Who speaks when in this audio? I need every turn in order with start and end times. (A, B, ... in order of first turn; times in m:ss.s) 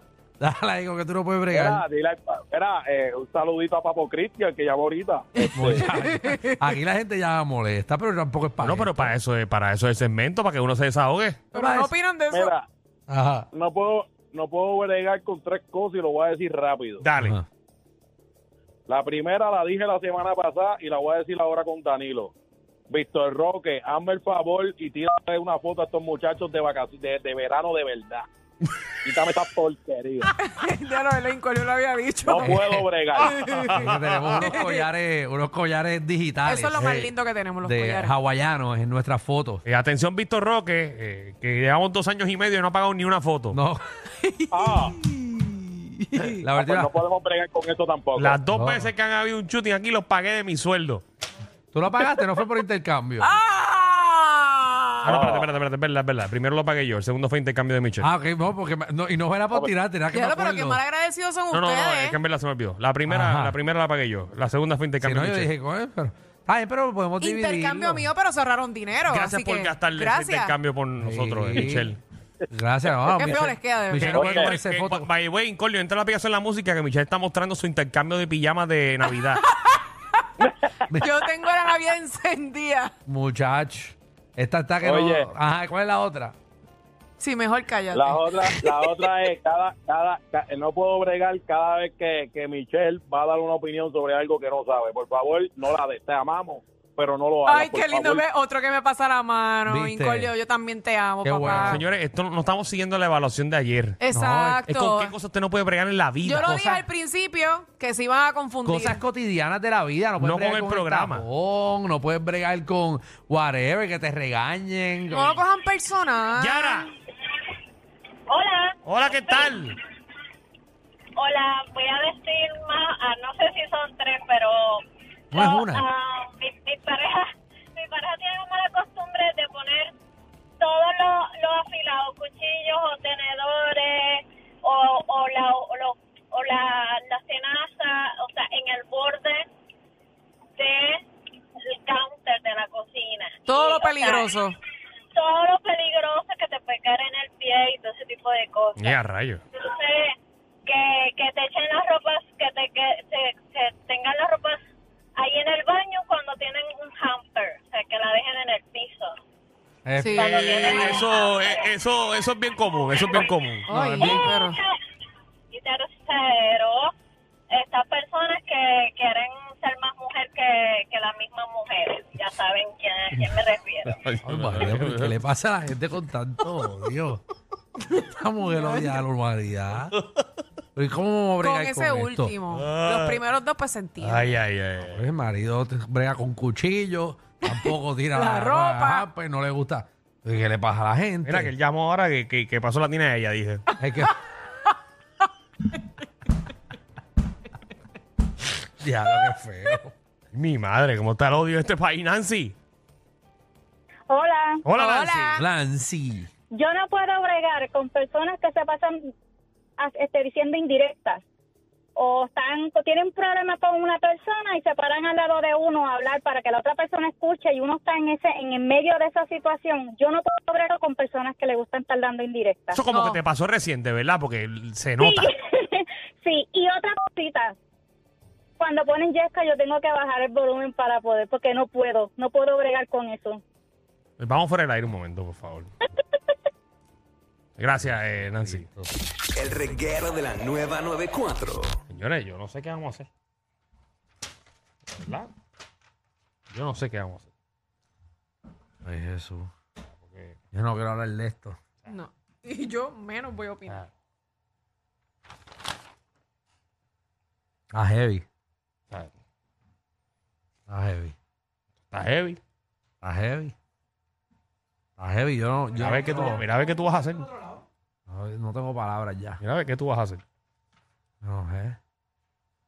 0:00.4-0:01.8 A
0:01.5-0:05.9 B
0:05.4-0:06.5 C
0:05.5-0:09.1 A
0:08.6-0:11.4 D
0:11.5-0:12.5 C
0:11.5-0:11.9 A
0:12.3-0:12.6 B
0:13.1-0:13.5 A
0:13.5-0:17.0 B
0:17.0-0:17.4 D
0:17.2-0:17.4 A
0:18.9-0:22.3 B
0:22.9-0:28.2 B
0:29.0-0:30.3 B
0:30.4-0:32.6 C
0:32.2-0:33.5 B
0:32.4-0:32.9 A
0:33.3-0:33.8 C
0:33.7-0:39.6 A
0:34.4-0:34.8 C
0:36.4-0:38.1 C
0:39.6-0:43.6 D
0:43.5-0:43.8 A
0:44.2-0:46.4 C
0:44.5-0:44.9 B
0:46.4-0:47.0 A
0:46.5-0:48.4 B
0:48.2-0:51.0 D
0:48.5-0:48.9 A
0:51.7-0:53.3 A
0:53.2-0:55.0 C
0:55.0-0:55.5 B
0:55.0-0:58.1 D
0:58.0-1:00.8 A
1:00.1-1:02.2 C
1:01.5-1:05.5 D
1:03.1-1:03.6 A
1:05.0-1:08.1 A
1:07.2-1:10.5 C
1:09.0-1:12.0 D
1:11.0-1:12.0 A
1:12.5-1:15.1 A
1:13.1-1:14.1 C
1:14.0-1:19.4 D
1:14.1-1:14.5 B
1:19.3-1:19.8 C
1:21.0-1:22.9 C
1:23.1-1:26.3 A
1:24.8-1:25.3 B
1:27.2-1:28.9 C
1:27.9-1:38.2 B
1:37.4-1:41.8 C
1:39.7-1:40.3 A
1:41.2-1:41.8 A
1:41.5-1:44.0 D
1:44.0-1:45.1 C
1:44.1-1:44.6 A
1:44.7-1:46.8 D
1:46.2-1:49.0 C
1:48.6-1:55.4 A
1:50.2-1:51.2 D
1:55.1-1:56.9 C
1:56.4-1:56.9 D
1:58.3-1:59.6 E
1:58.8-1:59.7 D
2:01.2-2:04.8 E
2:05.3-2:05.8 A
2:05.3-2:09.9 E
2:10.6-2:19.4 E
2:20.6-2:21.0 E
2:21.7-2:24.3 E
2:23.4-2:24.5 C
2:25.1-2:29.0 E
2:28.8-2:29.4 D
2:29.6-2:30.1 E
2:30.6-2:34.6 E
2:35.2-2:39.1 E
2:39.8-2:40.3 A
2:40.0-2:40.3 C
2:40.2-2:41.6 E
2:40.2-2:43.7 D
2:42.8-2:43.3 E
2:43.7-2:44.6 C
2:43.7-2:44.3 A
2:44.0-2:44.7 E
2:45.5-2:46.9 E
2:47.5-2:53.9 E
2:53.9-2:55.1 D
2:54.2-2:57.2 A
2:58.1-2:59.9 A
2:58.4-2:59.0 C
3:00.8-3:02.4 A
3:01.4-3:04.4 C
3:02.5-3:03.2 D
3:04.0-3:05.0 D
3:04.8-3:11.5 A
3:07.5-3:09.1 C
3:11.2-3:13.6 D
3:13.8-3:14.1 A
3:18.8-3:19.9 A
3:20.3-3:22.5 D
3:24.1-3:24.7 F
3:24.6-3:25.4 D
3:24.8-3:25.4 C
3:25.4-3:26.3 A
3:26.6-3:29.1 F
3:29.8-3:31.2 F
3:32.0-3:42.8 F
3:42.7-3:45.3 D
3:42.9-3:43.2 C
3:45.0-3:47.6 F
3:48.6-3:53.4 F
3:54.2-3:55.7 D
3:57.6-3:58.8 D
3:59.4-4:01.8 G
4:01.9-4:03.1 D
4:04.9-4:05.3 D
4:06.5-4:07.3 D
4:08.8-4:09.5 A
4:10.0-4:10.4 D
4:10.5-4:11.6 A
4:11.9-4:13.8 C
4:17.7-4:18.2 A
4:20.7-4:21.1 A
4:21.9-4:22.4 D
4:23.0-4:23.5 A
4:25.0-4:26.4 A
4:25.7-4:27.3 D
4:28.1-4:29.4 A
4:29.4-4:30.2 D
4:31.2-4:31.8 A